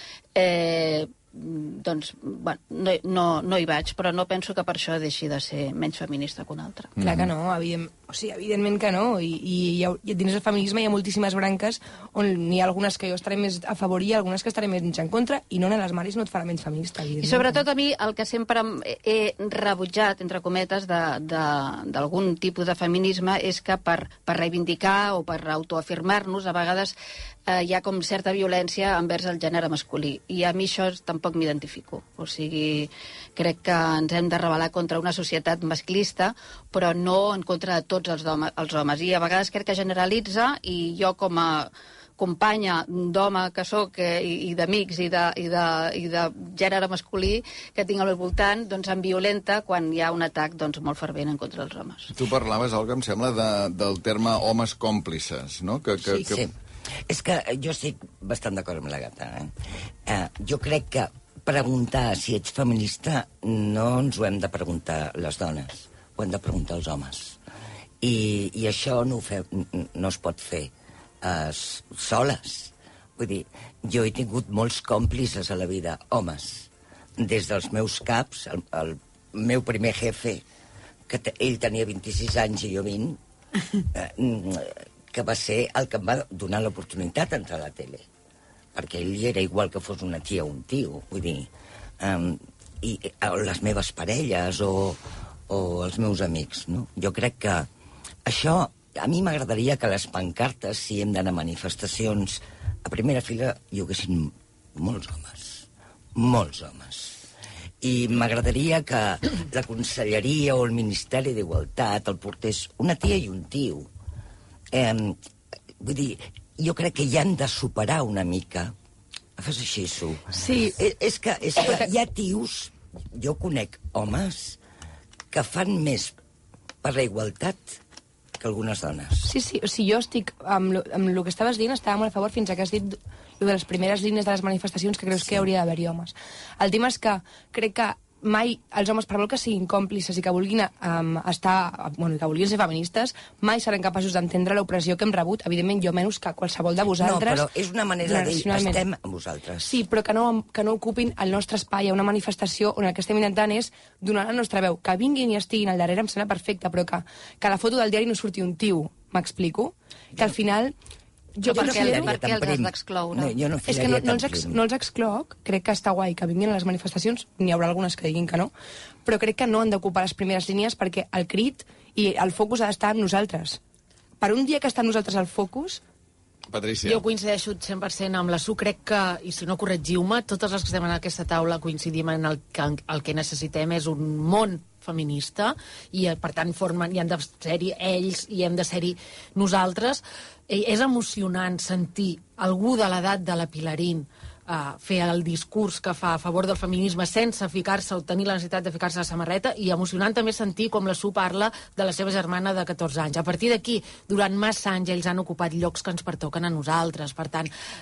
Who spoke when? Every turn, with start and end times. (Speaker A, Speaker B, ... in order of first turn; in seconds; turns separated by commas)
Speaker A: 0.3-6.9, Speaker B: 7.0-7.3, Speaker C: 7.0-17.6, Speaker A: 17.2-26.9, Speaker A: 27.5-52.1, Speaker B: 52.1-56.4, Speaker D: 56.0-56.5, Speaker D: 57.1-59.5, Speaker D: 60.0-67.4, Speaker D: 68.0-70.7, Speaker D: 71.2-80.4, Speaker D: 81.1-83.2, Speaker D: 83.9-88.0, Speaker D: 88.7-91.5, Speaker D: 92.0-97.7, Speaker D: 98.2-107.2, Speaker D: 107.8-113.9, Speaker D: 114.7-115.2, Speaker D: 115.8-118.7, Speaker D: 119.4-124.6, Speaker C: 120.3-120.8, Speaker C: 121.6-121.9, Speaker D: 125.3-126.1, Speaker D: 126.8-127.8, Speaker D: 128.4-129.3, Speaker C: 129.2-147.5, Speaker D: 135.2-135.4, Speaker D: 147.0-149.8, Speaker C: 148.0-148.8, Speaker C: 149.6-160.7, Speaker C: 161.4-162.1, Speaker A: 161.4-163.4, Speaker D: 161.4-164.6, Speaker C: 163.7-168.5, Speaker C: 169.0-173.6, Speaker C: 174.2-175.8, Speaker B: 176.5-177.0, Speaker E: 176.8-207.5